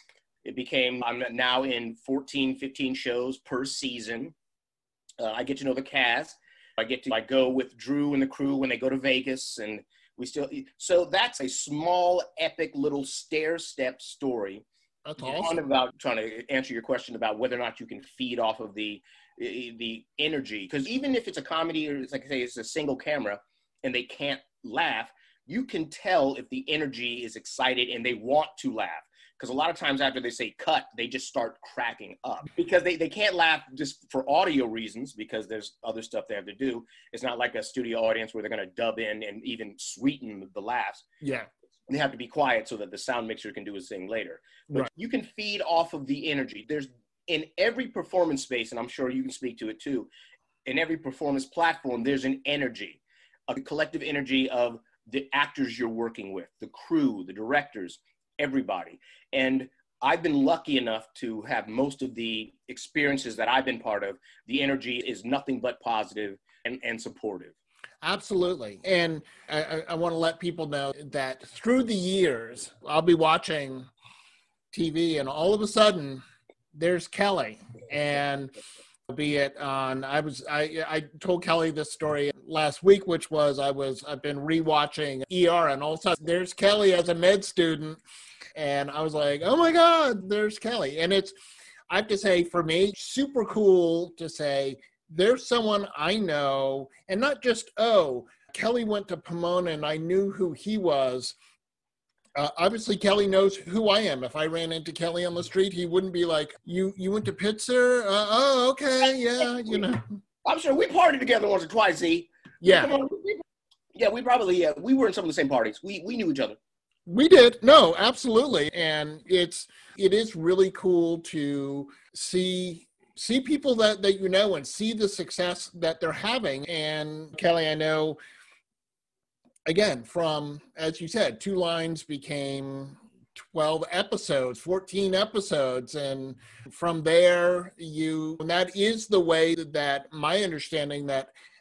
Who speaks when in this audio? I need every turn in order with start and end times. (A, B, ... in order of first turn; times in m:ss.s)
0:00.4-0:04.3 A
0:05.2-0:14.6 A
0:15.0-0:15.6 B
0:15.2-0:41.0 A
0:41.2-0:41.5 B
0:41.9-0:50.1 A
0:50.6-1:07.6 A
1:08.0-1:13.9 B
1:14.7-1:16.2 B
1:16.7-1:18.5 B
1:19.1-1:28.0 B
1:28.6-1:31.4 B
1:31.9-1:41.4 B
1:42.4-1:50.0 B
1:49.0-1:49.9 A
1:50.4-1:53.4 A
1:52.6-1:52.9 B
1:54.0-1:56.6 A
1:57.1-2:08.2 B
2:09.7-2:21.3 B